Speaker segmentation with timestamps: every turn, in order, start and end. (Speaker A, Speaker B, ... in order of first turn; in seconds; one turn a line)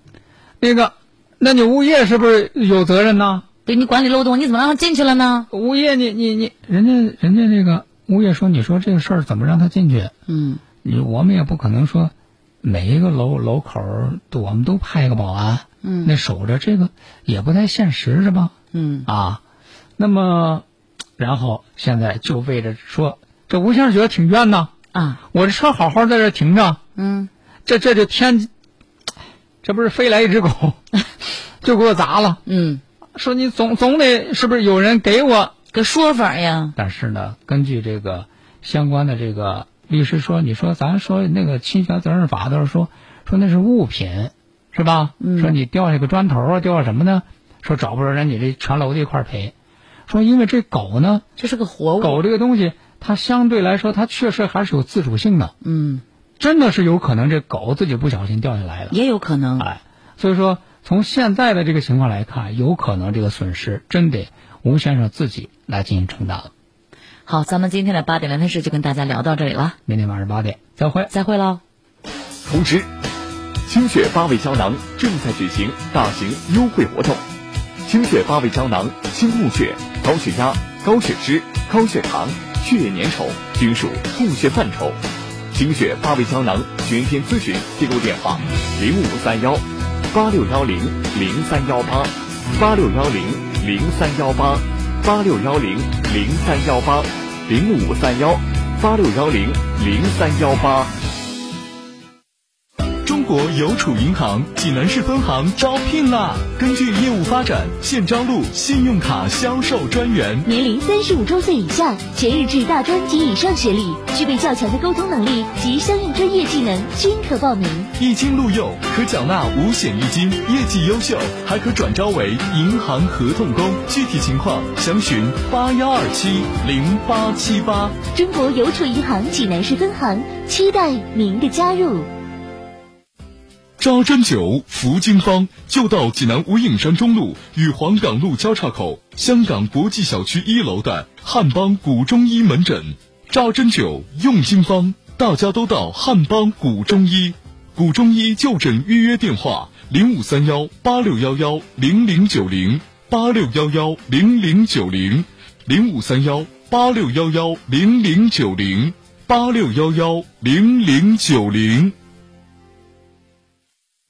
Speaker A: 0.6-3.5
Speaker B: 3.6-5.5
Speaker A: 5.5-10.1
Speaker B: 10.3-10.6
Speaker A: 10.8-18.5
Speaker B: 15.8-16.1
Speaker B: 18.7-19.1
Speaker A: 19.1-19.4
Speaker A: 20.0-20.6
Speaker A: 21.2-24.7
Speaker B: 24.9-25.2
Speaker A: 25.3-26.8
Speaker B: 26.9-27.3
Speaker A: 27.6-28.5
Speaker A: 29.6-30.8
Speaker A: 31.6-32.4
Speaker B: 32.5-32.8
Speaker A: 33.1-35.5
Speaker B: 35.7-36.8
Speaker A: 36.8-49.5
Speaker B: 45.2-45.5
Speaker A: 50.1-51.2
Speaker B: 51.4-52.2
Speaker A: 52.0-55.5
Speaker B: 55.6-56.0
Speaker A: 56.4-59.0
Speaker B: 58.9-59.7
Speaker A: 59.6-66.5
Speaker B: 67.3-69.8
Speaker A: 69.9-71.1
Speaker B: 71.1-71.6
Speaker C: 72.4-72.9
Speaker C: 73.6-77.2
Speaker C: 77.8-85.0
Speaker C: 85.5-100.9
Speaker D: 103.1-103.7
Speaker D: 107.8-108.4
Speaker E: 110.4-117.9
Speaker D: 118.9-121.2
Speaker D: 121.8-122.3
Speaker D: 123.9-125.4
Speaker D: 126.2-126.7
Speaker E: 128.0-132.1
Speaker D: 133.8-161.9